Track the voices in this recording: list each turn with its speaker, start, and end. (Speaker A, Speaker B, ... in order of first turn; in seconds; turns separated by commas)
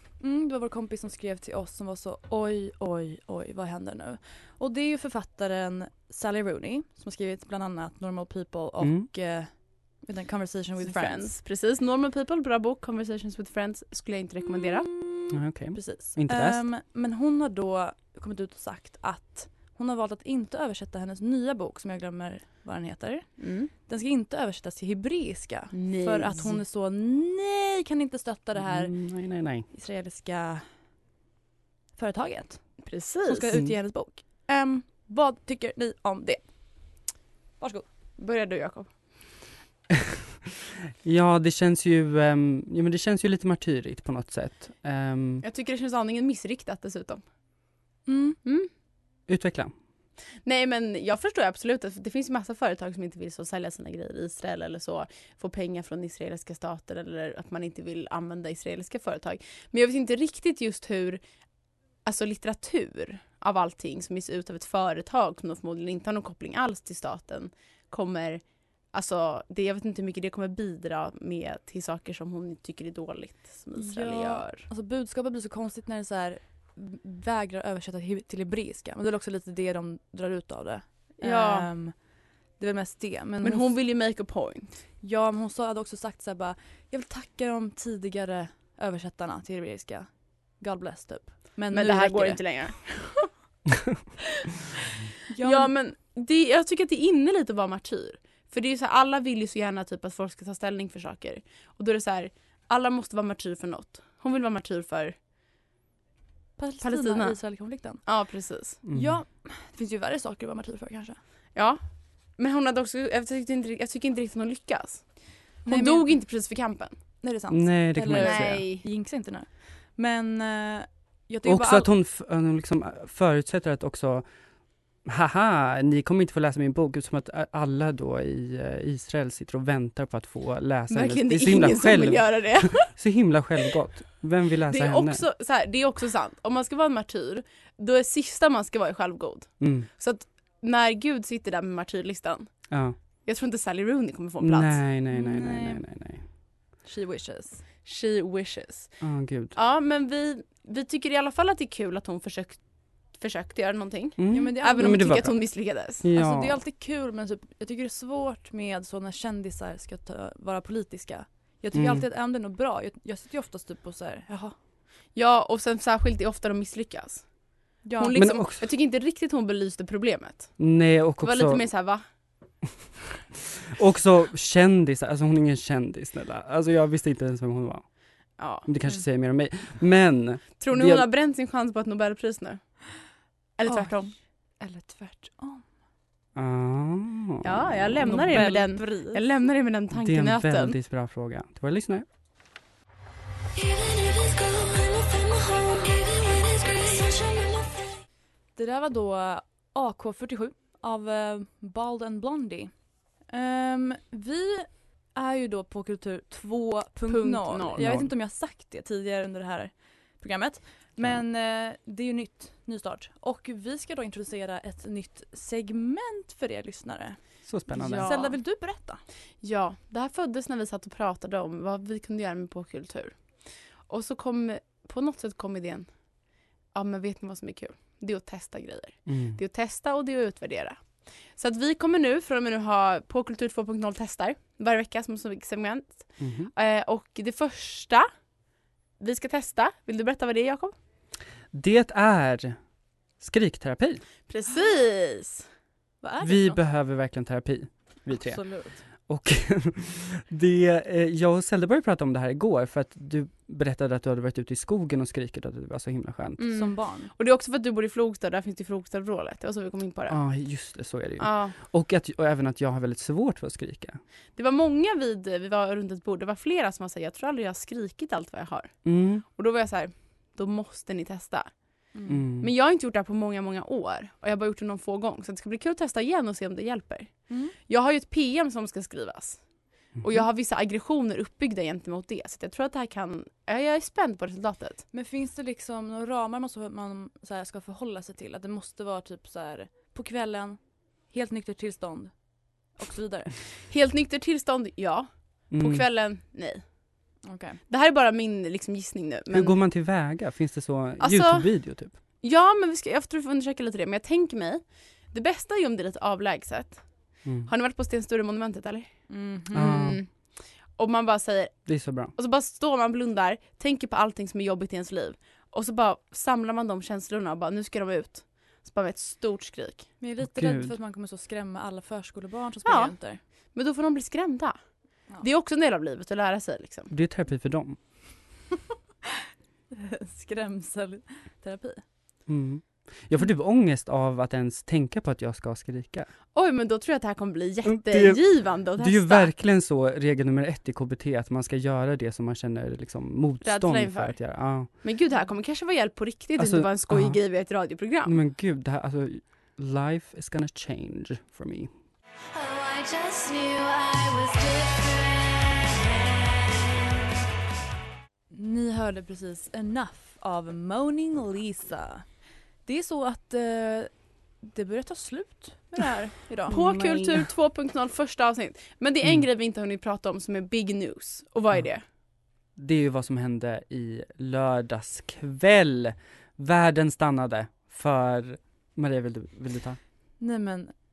Speaker A: 0.2-11.3, Speaker B: 8.8-9.1, Speaker C: 10.8-14.9, Speaker A: 15.0-28.9, Speaker B: 15.3-16.6, Speaker C: 23.4-23.7, Speaker C: 25.7-26.6, Speaker B: 28.6-29.7, Speaker A: 29.7-30.6, Speaker A: 31.9-32.6, Speaker C: 32.8-33.5, Speaker A: 33.2-36.4, Speaker A: 37.6-37.8, Speaker C: 38.2-38.9, Speaker B: 41.0-45.4, Speaker C: 45.4-47.2, Speaker A: 48.0-48.4, Speaker C: 48.4-48.7, Speaker B: 49.3-49.7, Speaker C: 50.4-61.2, Speaker C: 62.0-74.7, Speaker A: 73.8-81.9, Speaker C: 81.2-81.7, Speaker A: 82.6-83.8, Speaker C: 83.4-84.8, Speaker A: 85.0-92.4, Speaker C: 91.7-93.1, Speaker A: 95.3-95.7, Speaker C: 95.4-105.1, Speaker A: 106.6-108.0, Speaker C: 106.8-107.4, Speaker C: 108.0-108.8, Speaker A: 108.8-111.2, Speaker B: 108.8-109.1, Speaker C: 111.5-111.8, Speaker C: 112.4-117.0, Speaker A: 115.6-116.1, Speaker A: 117.2-121.9, Speaker B: 117.5-118.6, Speaker C: 118.1-118.8, Speaker B: 121.4-124.2, Speaker B: 125.0-135.2, Speaker C: 130.9-132.9, Speaker C: 134.7-142.5, Speaker B: 139.6-139.9, Speaker B: 142.7-142.9, Speaker C: 143.2-144.8, Speaker B: 144.4-146.2, Speaker A: 145.1-145.8, Speaker A: 146.8-147.6, Speaker C: 147.8-148.9, Speaker B: 149.0-149.5, Speaker C: 149.5-156.0, Speaker B: 154.2-156.6, Speaker A: 154.3-155.0, Speaker A: 156.1-164.5, Speaker B: 161.7-162.0, Speaker C: 165.1-167.2, Speaker A: 167.8-168.2, Speaker C: 167.9-170.6, Speaker B: 168.1-168.7, Speaker B: 170.6-171.6, Speaker C: 171.2-172.0, Speaker B: 173.8-177.9, Speaker C: 178.4-178.7, Speaker B: 178.7-181.1, Speaker C: 180.6-182.7, Speaker C: 183.6-184.1, Speaker A: 183.7-184.1, Speaker A: 184.6-185.6, Speaker B: 186.3-188.5, Speaker C: 187.4-190.8, Speaker A: 188.0-189.2, Speaker B: 189.9-192.0, Speaker A: 193.5-198.0, Speaker A: 198.6-202.7, Speaker A: 203.3-219.0, Speaker C: 207.1-207.8, Speaker B: 207.8-208.1, Speaker B: 217.5-218.1, Speaker C: 217.7-218.4, Speaker C: 219.4-223.3, Speaker C: 223.8-225.9, Speaker C: 226.7-238.1, Speaker B: 229.1-229.4, Speaker B: 236.2-236.5, Speaker C: 239.0-240.7, Speaker B: 241.5-242.6, Speaker B: 243.2-244.0, Speaker C: 244.3-245.4, Speaker A: 246.0-246.6, Speaker B: 246.2-256.5, Speaker A: 248.1-248.8, Speaker C: 256.4-260.2, Speaker A: 256.5-257.1, Speaker B: 260.1-264.0, Speaker C: 261.2-261.6, Speaker C: 264.4-271.5, Speaker B: 268.8-269.2, Speaker A: 271.9-272.2, Speaker B: 272.1-272.5, Speaker C: 272.4-279.4, Speaker A: 277.3-277.5, Speaker C: 280.0-284.8, Speaker A: 284.9-292.1, Speaker A: 292.7-293.3, Speaker C: 293.5-296.6, Speaker B: 295.5-295.8, Speaker A: 297.2-297.6, Speaker C: 297.7-299.6, Speaker B: 299.3-301.9, Speaker C: 301.0-301.5, Speaker C: 302.2-306.8, Speaker B: 307.2-307.5, Speaker C: 307.4-309.1, Speaker A: 309.1-309.9, Speaker B: 309.5-310.0, Speaker C: 309.7-310.1, Speaker C: 310.8-319.9, Speaker B: 311.6-312.1, Speaker A: 320.0-323.2, Speaker B: 320.2-320.7, Speaker C: 322.6-322.9, Speaker C: 323.5-324.6, Speaker C: 325.2-326.9, Speaker B: 326.9-327.8, Speaker A: 329.7-331.8, Speaker B: 332.3-336.1, Speaker C: 336.3-339.3, Speaker B: 337.6-344.7, Speaker C: 343.4-348.1, Speaker B: 346.4-347.2, Speaker B: 348.1-351.7, Speaker A: 352.3-356.7, Speaker A: 358.3-362.0, Speaker A: 362.6-363.9, Speaker A: 364.4-367.1, Speaker C: 366.5-371.8, Speaker B: 366.5-367.2, Speaker B: 372.6-379.8, Speaker A: 380.2-380.7